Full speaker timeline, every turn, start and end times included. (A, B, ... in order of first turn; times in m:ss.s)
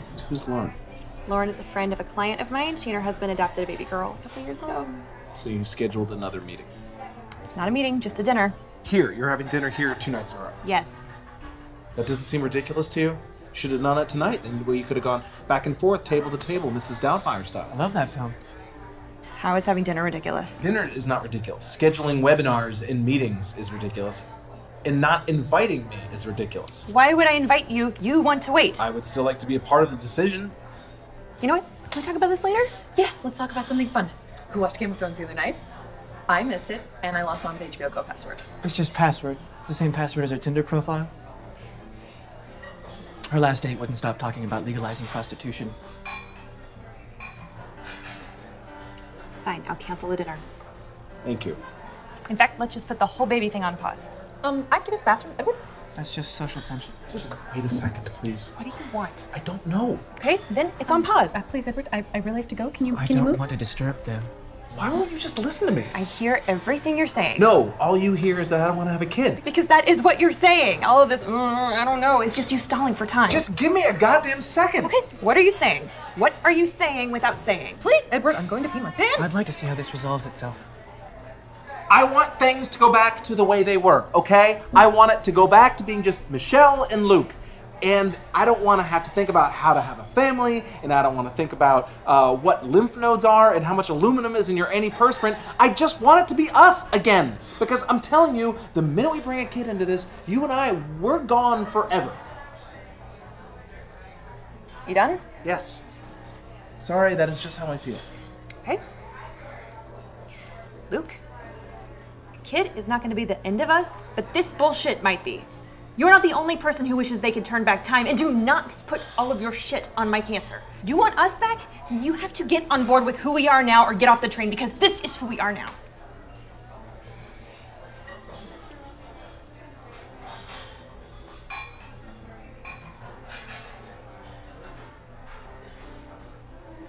0:00.2-0:00.8 A
0:01.3-0:04.9 B
0:05.3-0:06.7 A
0:07.5-0:08.5 B
0:08.8-0:10.6 A
0:10.6-0:11.1 B
0:12.0-0:17.7 A
0:17.7-0:18.4 C
0:19.4-0:20.6 B
0:20.6-0:24.2 A
0:24.8-0:26.9 A
0:26.9-0:28.8 B
0:28.8-0:30.5 A
0:31.4-0:32.7 B
0:32.9-0:35.6 D
0:36.3-0:38.4 D
0:38.6-0:41.1 C
0:43.3-0:45.7 C
0:49.4-0:50.4 B
0:51.2-0:51.6 A
0:52.3-0:54.1 B
0:54.4-0:55.6 D
0:56.0-0:56.9 C
0:57.1-0:58.5 A
0:58.6-0:59.3 B
0:59.3-1:00.0 A
1:00.2-1:01.4 B
1:00.9-1:03.4 D
1:02.9-1:04.3 C
1:04.7-1:05.9 A
1:05.9-1:07.5 B
1:07.4-1:09.4 A
1:09.4-1:13.5 B
1:13.3-1:14.9 A
1:14.8-1:17.8 B
1:17.8-1:19.4 D
1:19.2-1:20.6 C
1:21.9-1:42.2 A
1:44.9-1:45.2 B
1:45.4-1:45.8 A
1:46.8-1:48.0 A
1:50.9-1:51.2 B
1:52.4-2:05.7 B